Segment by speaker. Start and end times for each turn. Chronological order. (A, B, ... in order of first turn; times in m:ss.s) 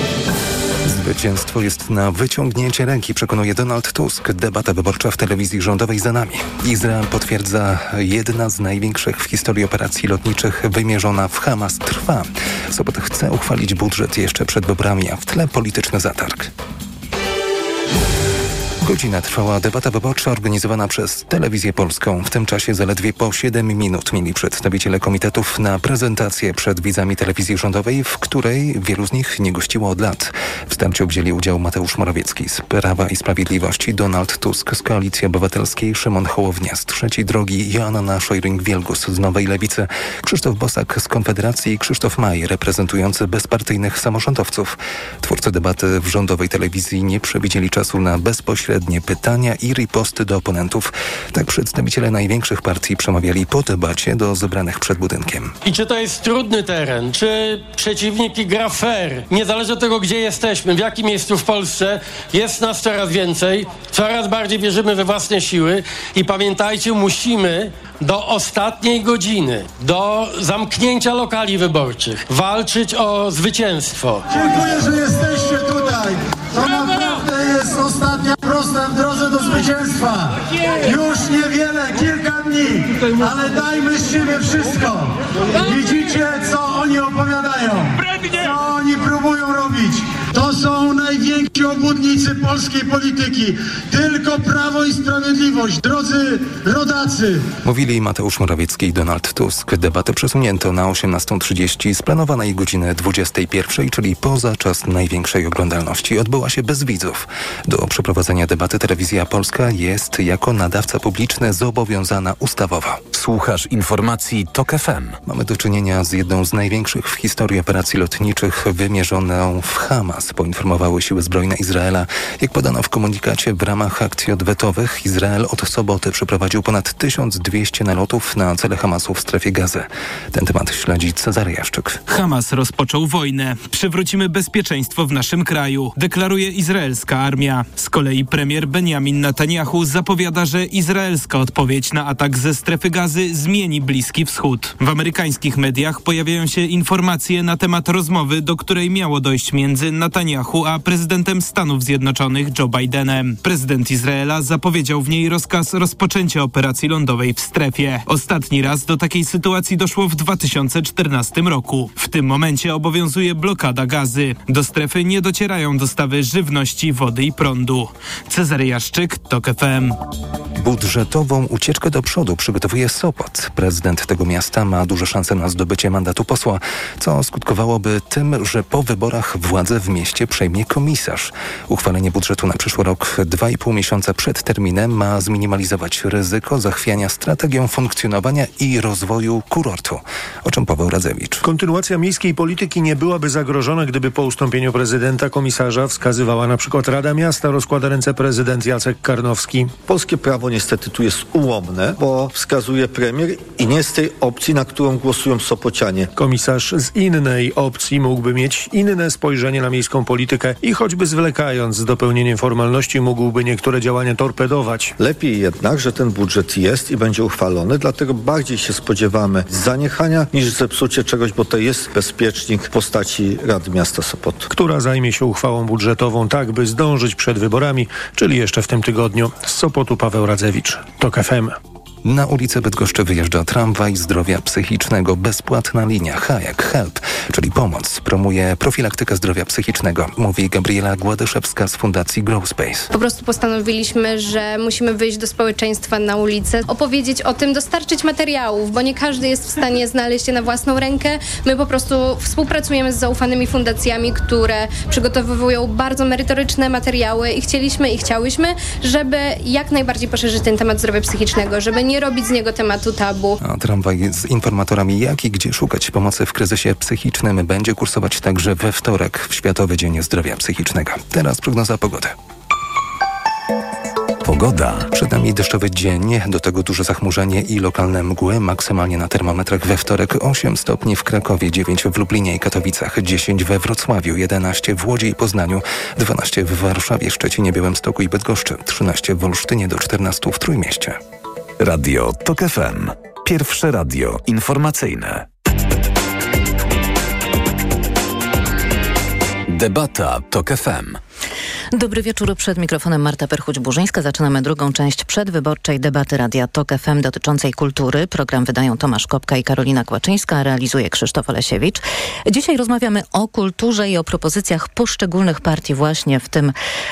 0:00.8-0:16.5 A
0:18.8-0:55.6 A
0:55.6-1:14.8 B
1:14.3-1:37.4 C
1:37.6-1:53.0 A
1:53.1-1:55.2 D
1:55.2-2:12.0 A
2:12.1-2:50.0 E
2:50.6-3:11.4 A
3:11.4-3:19.7 F
3:19.8-3:26.1 G
3:26.2-3:35.0 F
3:35.0-3:44.5 G
3:44.5-3:51.6 F
3:52.0-4:02.9 A
4:02.9-4:23.4 H
4:23.4-4:32.2 A
4:34.2-4:34.9 D
4:34.9-4:51.0 A
4:51.6-4:55.3 D
4:59.5-5:01.0 D
5:01.7-5:16.5 I